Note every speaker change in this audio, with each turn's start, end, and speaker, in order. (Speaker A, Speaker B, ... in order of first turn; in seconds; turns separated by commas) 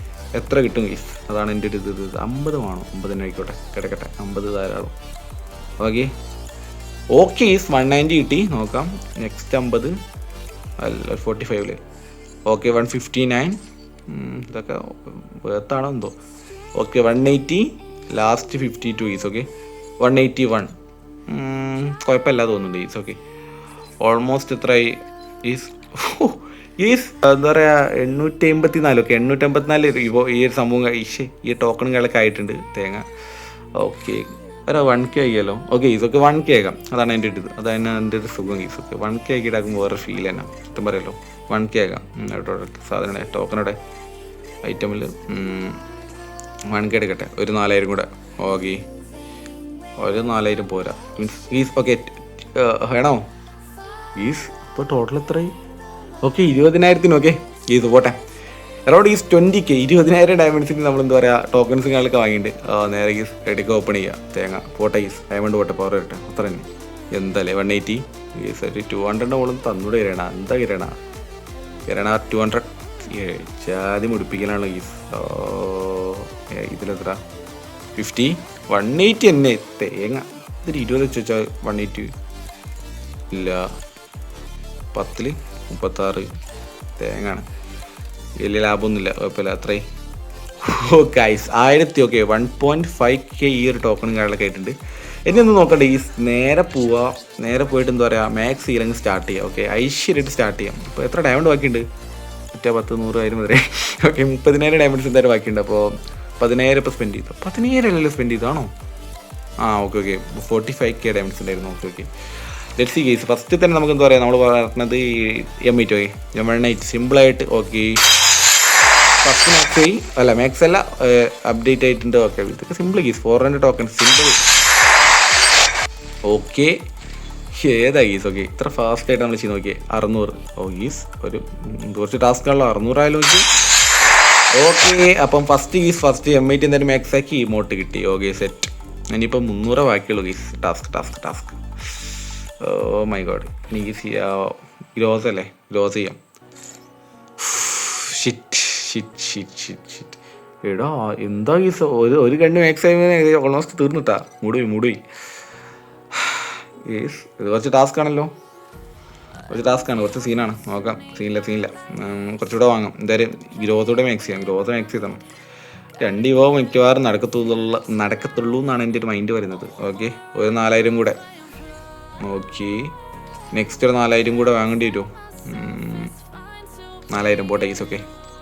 Speaker A: 0.3-5.0, Speaker A: 5.8-6.1, Speaker A: 7.1-10.0, Speaker A: 10.8-11.8, Speaker A: 12.5-16.1, Speaker A: 16.8-19.5, Speaker A: 20.0-20.7, Speaker A: 21.3-23.2, Speaker A: 24.0-33.0, Speaker A: 33.8-43.8, Speaker A: 44.6-45.8, Speaker A: 46.7-48.8, Speaker A: 50.0-53.2, Speaker A: 54.2-55.5, Speaker A: 56.2-58.2, Speaker A: 58.9-70.9, Speaker A: 71.9-77.2, Speaker A: 78.0-82.1, Speaker A: 83.3-83.7, Speaker A: 84.9-86.3, Speaker A: 87.0-87.5, Speaker A: 88.4-89.8, Speaker A: 90.6-101.8, Speaker A: 102.5-108.7, Speaker A: 109.6-112.1, Speaker A: 112.8-118.0, Speaker A: 119.2-124.4, Speaker A: 126.3-126.7, Speaker A: 127.5-133.4, Speaker A: 134.6-146.2, Speaker A: 147.4-155.0, Speaker A: 156.1-158.3, Speaker A: 159.5-165.2, Speaker A: 166.0-171.2, Speaker A: 172.2-172.9, Speaker A: 173.5-176.1, Speaker A: 177.1-178.0